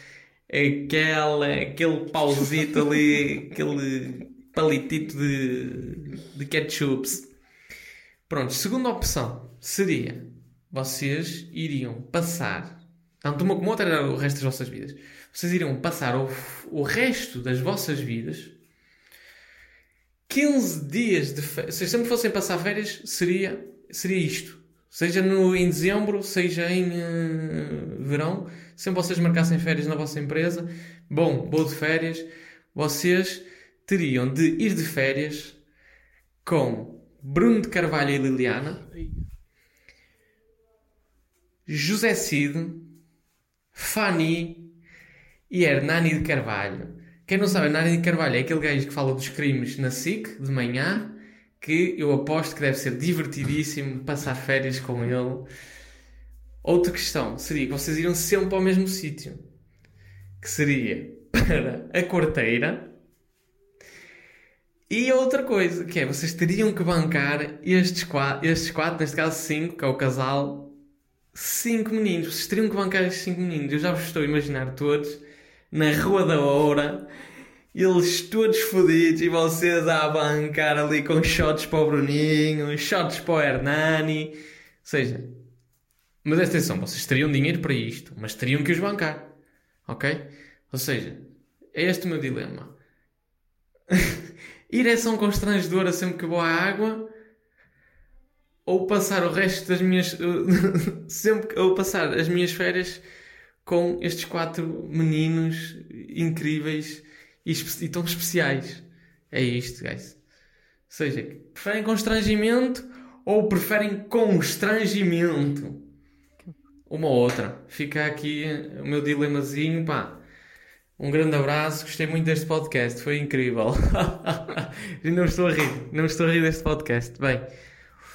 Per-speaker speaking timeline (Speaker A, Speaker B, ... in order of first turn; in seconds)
Speaker A: 0.5-7.3, 8.3-18.6, 20.3-35.6, 36.4-38.9, 41.7-42.9, 43.7-44.7, 45.5-55.5, 56.6-59.4, 60.4-62.9, 64.9-70.7, 71.3-77.1, 77.7-85.3, 86.2-89.3, 89.9-92.8, 94.7-97.1, 98.7-103.0, 103.7-110.2, 110.9-115.8, 116.9-120.2, 121.0-127.5